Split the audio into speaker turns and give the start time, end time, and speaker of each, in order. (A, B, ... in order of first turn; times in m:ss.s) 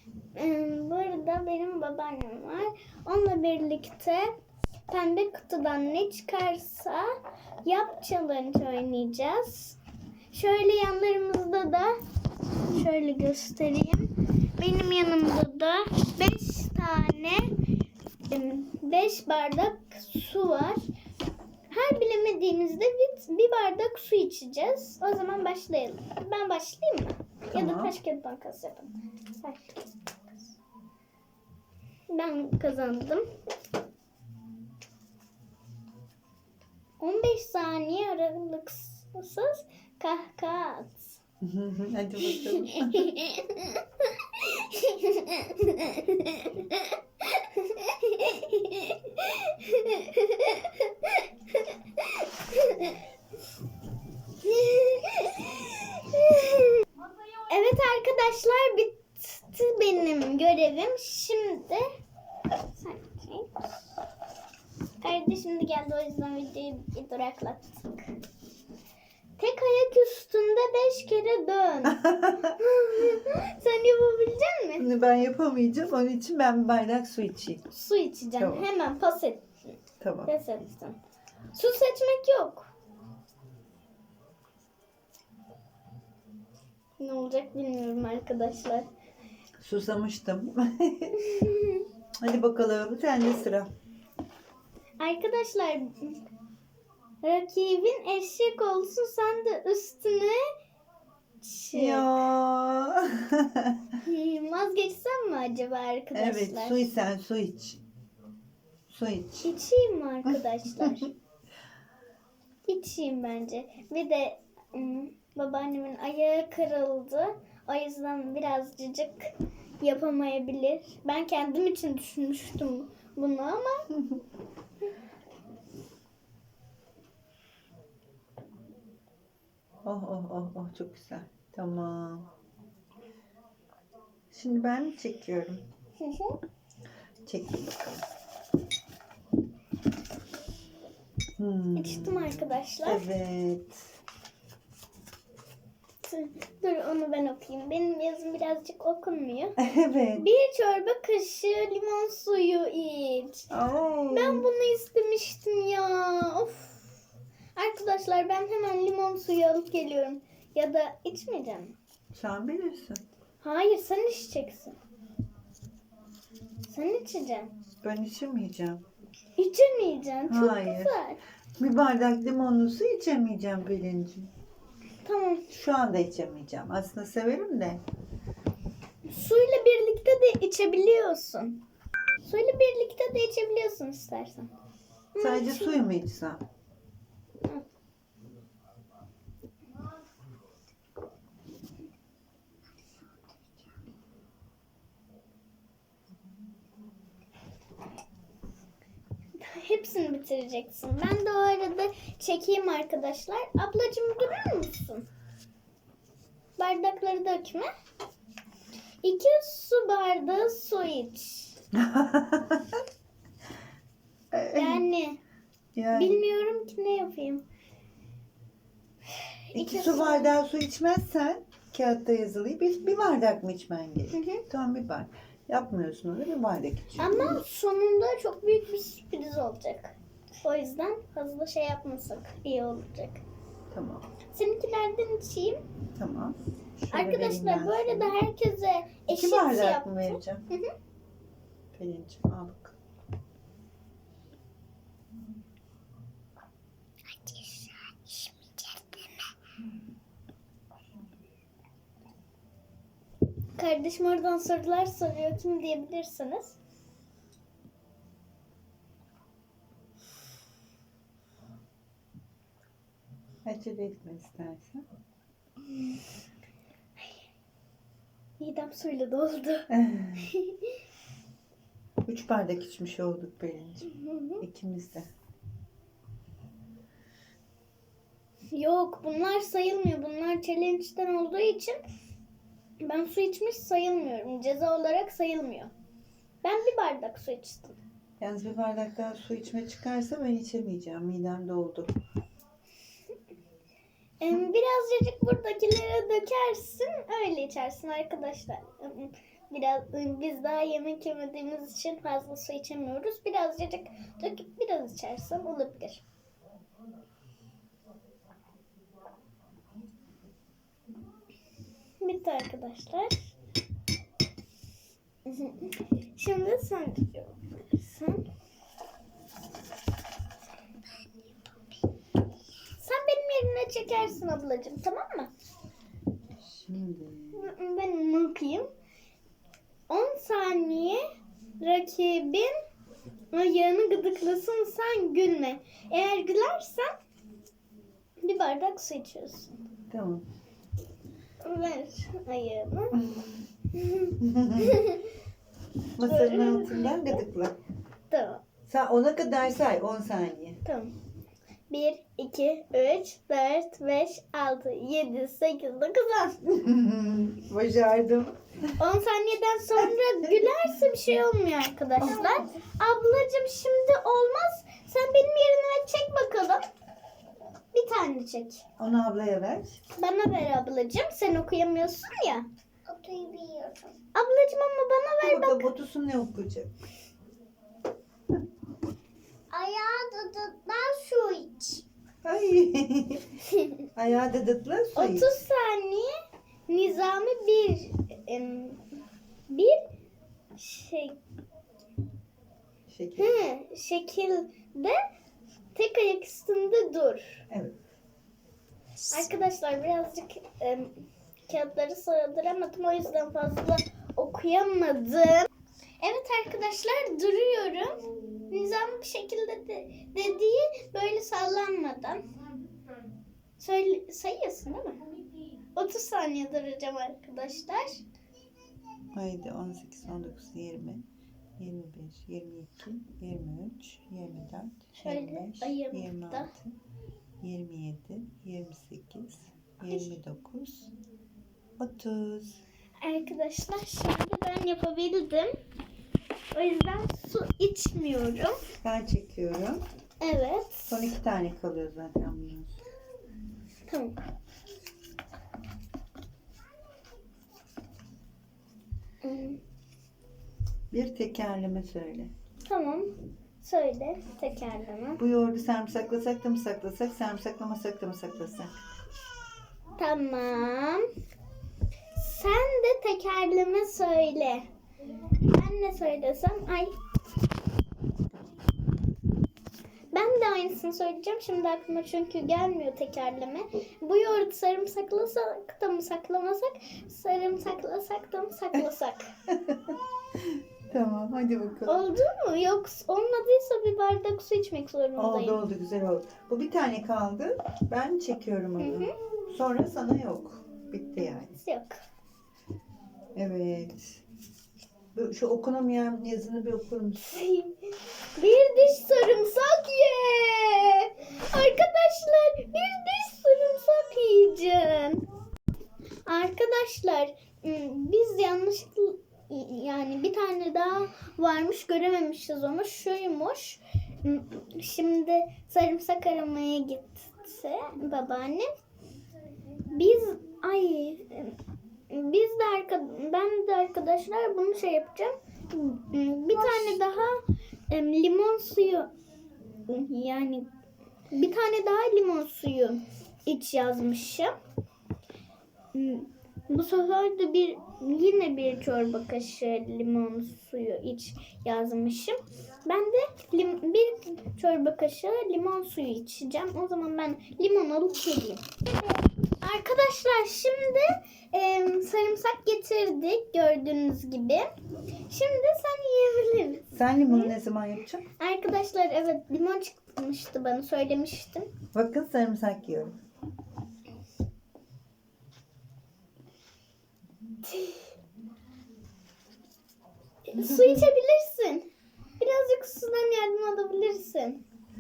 0:00.4-0:04.3 A
0:04.9-0:09.8 A
0:10.3-0:12.0 A
0:12.7-0:17.5 A
0:18.3-0:20.8 A
0:21.7-0:30.6 A
0:27.5-0:28.0 B
0:32.1-0:33.2 A
0:37.0-0:41.2 A
0:41.4-0:43.1 B
0:42.2-0:53.0 A
0:54.4-0:56.8 A
0:57.5-1:01.9 A
1:02.8-1:03.8 A
1:05.0-1:08.0 A
1:09.4-1:14.8 A
1:11.9-1:12.5 B
1:14.8-1:17.7 B
1:17.7-1:19.8 A
1:18.4-1:18.7 B
1:20.0-1:20.3 B
1:20.3-1:21.0 A
1:21.5-1:22.7 A
1:27.0-1:28.9 A
1:29.6-1:31.2 B
1:31.2-1:31.8 A
1:32.2-1:33.7 B
1:35.0-1:36.2 A
1:37.2-1:40.4 A
1:41.4-1:42.2 A
1:41.7-1:43.9 B
1:44.0-1:46.8 A
1:46.1-1:47.8 B
1:48.9-1:49.5 B
1:49.4-1:51.1 A
1:52.7-2:04.0 A
2:09.8-2:12.3 B
2:14.3-2:15.7 B
2:16.0-2:16.4 A
2:17.2-2:18.0 B
2:21.4-2:23.9 B
2:21.8-2:23.1 A
2:26.0-2:29.6 A
2:29.6-2:30.3 B
2:30.2-2:33.5 A
2:33.5-2:34.5 B
2:34.1-2:36.9 A
2:37.6-2:41.8 A
2:42.1-2:43.0 B
2:43.4-2:44.8 A
2:46.6-2:47.5 A
2:47.8-2:48.8 B
2:49.4-2:51.2 A
2:50.3-2:51.0 B
2:51.6-2:54.3 B
2:55.0-2:55.5 A
2:55.5-2:57.8 B
2:59.1-3:01.6 A
3:02.2-3:04.5 A
3:05.2-3:05.9 A
3:05.2-3:06.4 B
3:19.4-3:25.1 A
3:26.6-3:27.7 A
3:29.0-3:31.6 A
3:31.7-3:32.8 B
3:34.3-3:34.8 B
3:34.5-3:35.2 A
3:35.8-3:36.2 B
3:35.9-3:37.4 A
3:39.3-3:40.4 A
3:39.5-3:47.4 B
3:44.1-3:44.4 A
3:47.0-3:53.2 A
3:53.7-3:54.1 B
3:54.3-3:55.6 A
3:56.0-3:58.2 B
3:56.9-4:00.7 A
3:59.1-4:00.4 B
4:01.7-4:02.8 B
4:07.1-4:09.1 A
4:13.6-4:16.6 A
4:23.4-4:24.8 B
4:28.4-4:30.8 A
4:29.7-4:30.3 B
4:32.1-4:35.1 B
4:33.9-4:34.4 A
4:38.5-4:41.8 A
4:42.8-4:45.7 A
4:46.4-4:47.8 A
4:48.2-4:51.9 B
4:54.2-5:06.0 A
5:12.0-5:13.3 A
5:15.3-5:18.2 A
5:22.8-5:25.3 A
5:26.4-5:27.5 B
5:27.3-5:28.7 A
5:29.9-5:31.0 A
5:31.6-5:32.5 A
5:33.3-5:36.9 A
5:38.2-5:39.5 A
5:39.9-5:40.3 B
5:41.4-5:43.0 A
5:42.9-5:43.4 B
5:43.7-5:45.1 A
5:44.2-5:44.9 B
5:46.0-5:47.6 B
5:46.0-5:47.2 A
5:48.1-5:48.4 A
5:48.7-5:50.6 B
5:50.6-5:51.0 A
5:51.7-5:56.4 A
5:56.4-5:58.7 B
5:58.8-6:06.7 A
5:59.8-6:00.5 B
6:02.0-6:02.5 B
6:07.7-6:08.6 A
6:08.8-6:09.8 B
6:10.0-6:12.5 A
6:12.9-6:14.0 C
6:14.1-6:15.7 A
6:15.2-6:16.7 B
6:19.5-6:21.7 C
6:22.2-6:23.4 B
6:23.5-6:23.9 A
6:24.0-6:25.4 B
6:25.0-6:26.1 A
6:26.7-6:28.9 A
6:29.5-6:29.8 A
6:30.6-6:31.2 A
6:32.9-6:33.5 B
6:33.2-6:35.0 A
6:35.8-6:37.4 A
6:37.5-6:37.8 B
6:39.1-6:41.0 A
6:41.5-6:45.5 A
6:46.0-6:48.0 A
6:48.5-6:52.2 A
6:53.6-6:55.0 A
6:55.8-6:58.0 A
6:59.1-7:01.1 B
7:01.6-7:06.8 B
7:05.0-7:06.5 A
7:07.4-7:10.9 B
7:11.8-7:12.6 B
7:13.0-7:15.5 A
7:16.5-7:18.6 A
7:18.8-7:19.8 B
7:20.2-7:21.1 A
7:20.9-7:22.8 B
7:23.9-7:24.2 A
7:29.2-7:29.6 A
7:30.9-7:32.3 B
7:32.6-7:35.2 A
7:35.2-7:38.8 B
7:40.0-7:41.0 A
7:42.2-7:44.7 A
7:45.4-7:47.0 A
7:50.1-7:59.3 A
7:59.5-8:02.1 B
8:01.9-8:05.6 A
8:05.2-8:11.6 B
8:08.8-8:09.1 A
8:11.6-8:12.0 A
8:13.4-8:14.2 B
8:15.2-8:17.2 B
8:17.2-8:17.8 A
8:18.4-8:25.2 A
8:26.3-8:38.7 A
8:39.9-8:41.6 A
8:42.1-8:49.1 A
8:49.9-8:50.7 A
8:51.3-8:54.5 A
8:55.9-9:08.8 A
9:09.5-9:14.7 A
9:15.3-9:17.5 A
9:16.9-9:18.2 B
9:18.4-9:21.7 A
9:21.9-9:23.2 B
9:27.6-9:28.1 A
9:30.5-9:31.9 A
9:30.6-9:31.0 B
9:32.4-9:34.6 A